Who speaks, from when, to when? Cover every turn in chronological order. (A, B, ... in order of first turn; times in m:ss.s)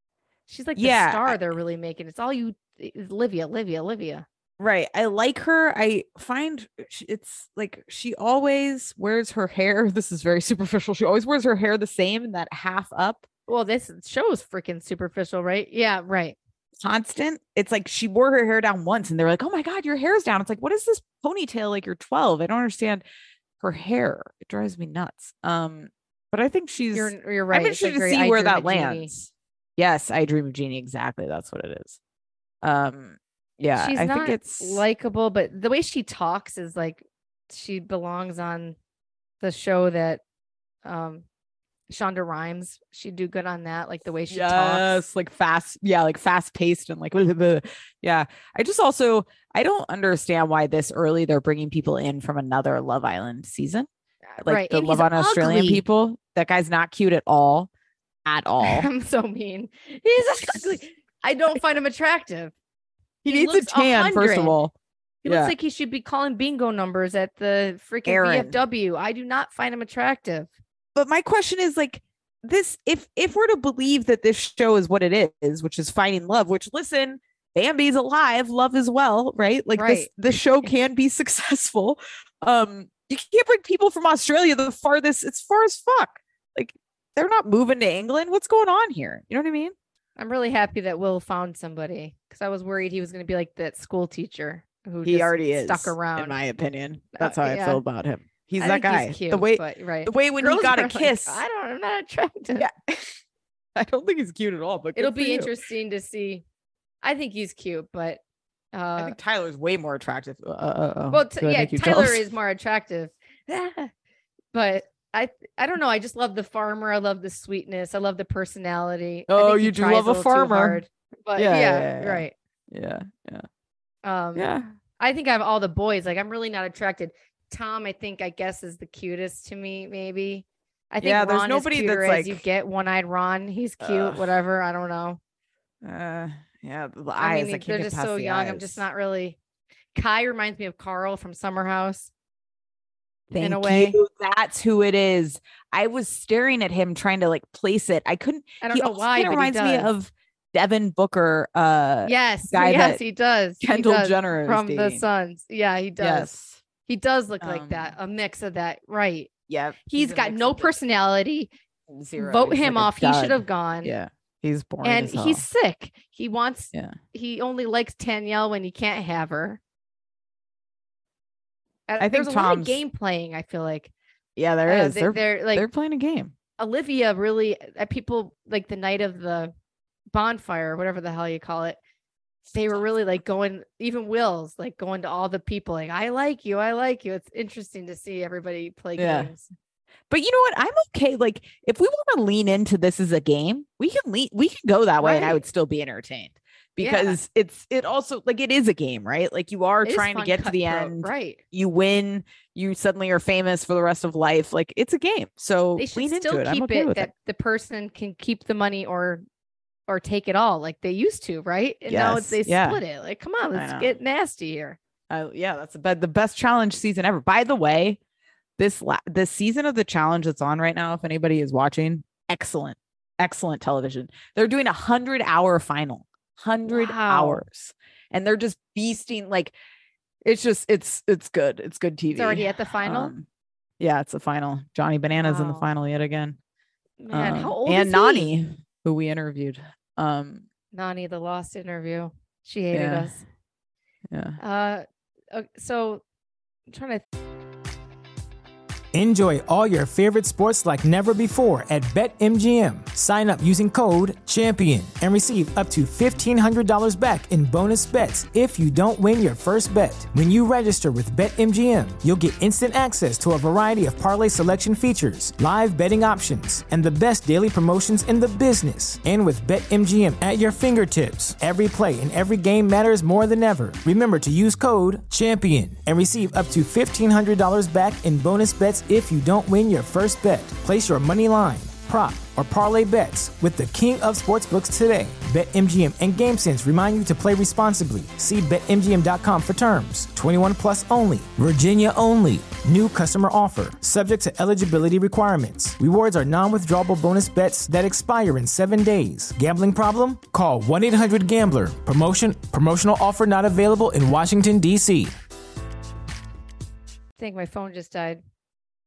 0:00.5-0:04.2 A
0:00.8-0:01.4 B
0:04.6-0:13.2 B
0:13.5-0:16.4 A
0:16.8-0:23.0 B
0:23.6-0:32.0 B
0:26.9-0:29.1 A
0:32.6-0:34.8 B
0:33.8-0:38.8 A
0:39.4-0:40.2 A
0:40.8-0:41.2 A
0:41.9-0:45.0 A
0:44.3-0:53.9 B
0:54.3-0:55.8 A
0:54.4-0:57.7 B
0:58.2-0:58.9 B
0:58.6-1:02.5 A
1:03.2-1:04.7 B
1:03.3-1:04.6 A
1:05.2-1:10.5 A
1:05.2-1:05.5 B
1:08.1-1:08.6 B
1:11.0-1:29.8 B
1:19.8-1:20.1 A
1:30.2-1:36.4 A
1:35.0-1:41.4 B
1:37.2-1:37.8 A
1:38.6-1:42.7 A
1:42.6-1:43.1 B
1:43.8-1:45.5 B
1:45.0-1:46.4 A
1:47.0-1:48.2 A
1:48.7-1:49.2 A
1:49.0-1:52.2 B
1:51.1-1:53.9 A
1:54.5-2:02.3 A
1:59.3-2:00.8 B
2:01.4-2:03.5 B
2:04.0-2:04.5 A
2:04.4-2:04.7 B
2:05.0-2:15.2 A
2:11.0-2:12.4 B
2:13.8-2:14.3 B
2:15.8-2:18.8 B
2:17.2-2:19.4 A
2:20.0-2:22.1 A
2:23.3-2:33.0 B
2:23.4-2:24.0 A
2:28.6-2:29.9 A
2:32.0-2:36.3 A
2:33.6-2:35.0 B
2:36.0-2:36.6 B
2:36.8-2:39.3 A
2:37.4-2:38.0 B
2:39.5-2:40.7 B
2:39.9-2:41.5 A
2:41.9-2:45.4 B
2:42.2-2:43.9 A
2:44.8-2:49.6 A
2:51.9-2:53.9 A
2:52.0-2:52.8 B
2:54.4-2:56.4 B
2:54.7-2:55.7 A
2:56.6-2:59.5 A
3:00.1-3:01.8 A
3:02.5-3:09.5 A
3:09.0-3:09.3 B
3:10.1-3:27.1 B
3:15.0-3:15.4 A
3:16.8-3:17.2 A
3:19.8-3:21.4 A
3:25.8-3:29.2 A
3:29.9-3:34.8 A
3:31.9-3:32.8 B
3:33.5-3:33.9 B
3:35.1-3:38.0 B
3:38.6-3:49.5 B
3:46.7-3:47.4 A
3:50.2-3:53.3 B
3:52.1-3:53.1 A
3:53.8-3:56.4 B
3:55.2-3:55.7 A
3:57.0-3:58.3 A
3:57.1-4:00.4 B
4:00.7-4:03.2 A
4:02.7-4:03.1 B
4:04.1-4:04.4 B
4:04.4-4:06.0 A
4:06.7-4:07.0 A
4:08.9-5:05.1 C
5:07.2-5:08.2 A